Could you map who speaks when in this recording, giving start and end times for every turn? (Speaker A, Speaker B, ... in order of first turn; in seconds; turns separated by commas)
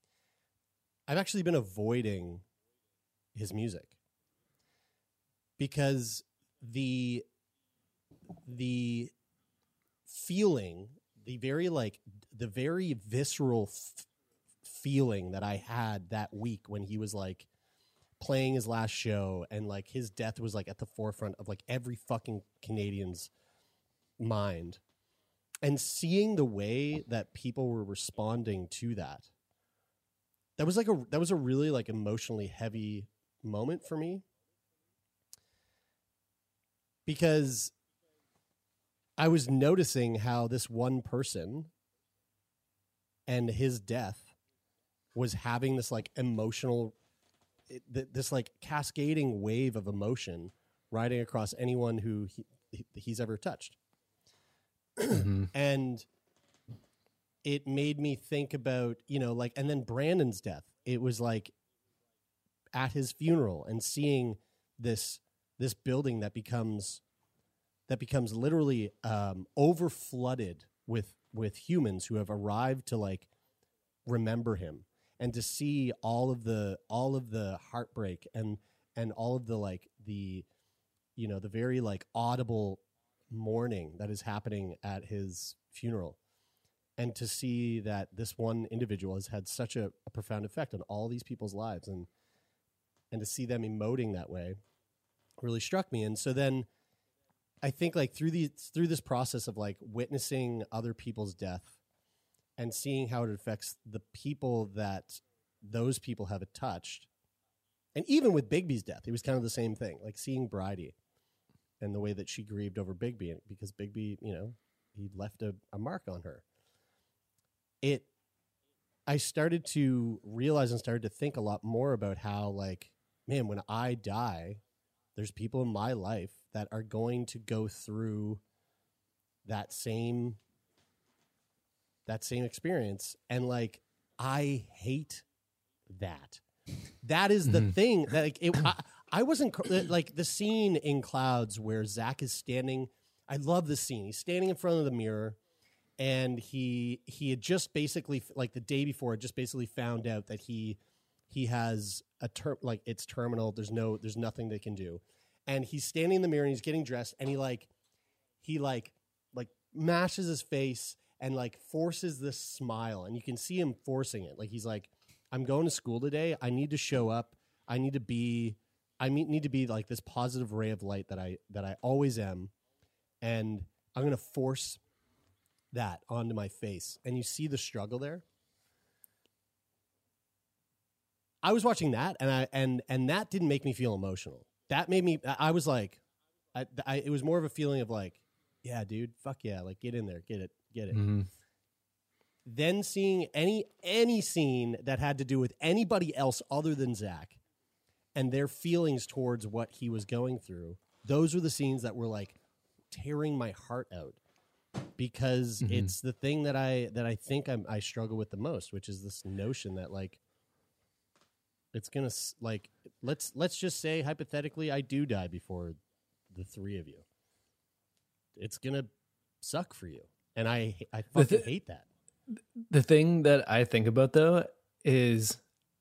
Speaker A: 1.1-2.4, Speaker A: 3.3-4.0, Speaker A: 5.6-7.2, Speaker A: 8.4-9.1, Speaker A: 10.1-14.1, Speaker A: 14.6-17.5, Speaker A: 18.2-23.3, Speaker A: 24.2-24.8, Speaker A: 25.6-29.3, Speaker A: 30.6-34.2, Speaker A: 37.0-37.7, Speaker A: 39.2-41.7, Speaker A: 43.3-44.3, Speaker A: 45.1-46.9, Speaker A: 47.7-53.8, Speaker A: 55.0-56.0, Speaker B: 55.1-55.5, Speaker A: 57.4-61.5, Speaker A: 62.7-67.0, Speaker A: 67.9-73.3, Speaker A: 74.0-80.5, Speaker A: 81.2-86.2, Speaker A: 87.0-92.1, Speaker A: 93.1-94.6, Speaker A: 95.4-96.7, Speaker A: 97.6-101.8, Speaker A: 102.6-107.1, Speaker A: 108.0-110.9, Speaker A: 111.8-116.4, Speaker A: 117.8-118.1, Speaker A: 119.1-124.6, Speaker A: 125.2-128.4, Speaker A: 129.4-130.4, Speaker A: 132.1-135.2, Speaker A: 135.9-136.4, Speaker A: 137.0-145.4, Speaker B: 137.4-137.8, Speaker A: 146.0-150.8, Speaker A: 151.3-157.7, Speaker A: 158.4-172.5, Speaker A: 173.2-174.8, Speaker A: 175.7-178.2, Speaker A: 181.4-186.0, Speaker A: 186.5-191.1, Speaker B: 190.9-191.3, Speaker A: 192.4-197.4, Speaker A: 198.1-202.4, Speaker A: 202.9-204.2, Speaker A: 205.0-210.2, Speaker B: 205.6-205.9, Speaker A: 211.7-215.8, Speaker A: 216.3-217.0, Speaker A: 218.3-218.9, Speaker A: 219.4-221.8, Speaker B: 221.1-221.5, Speaker B: 222.3-225.4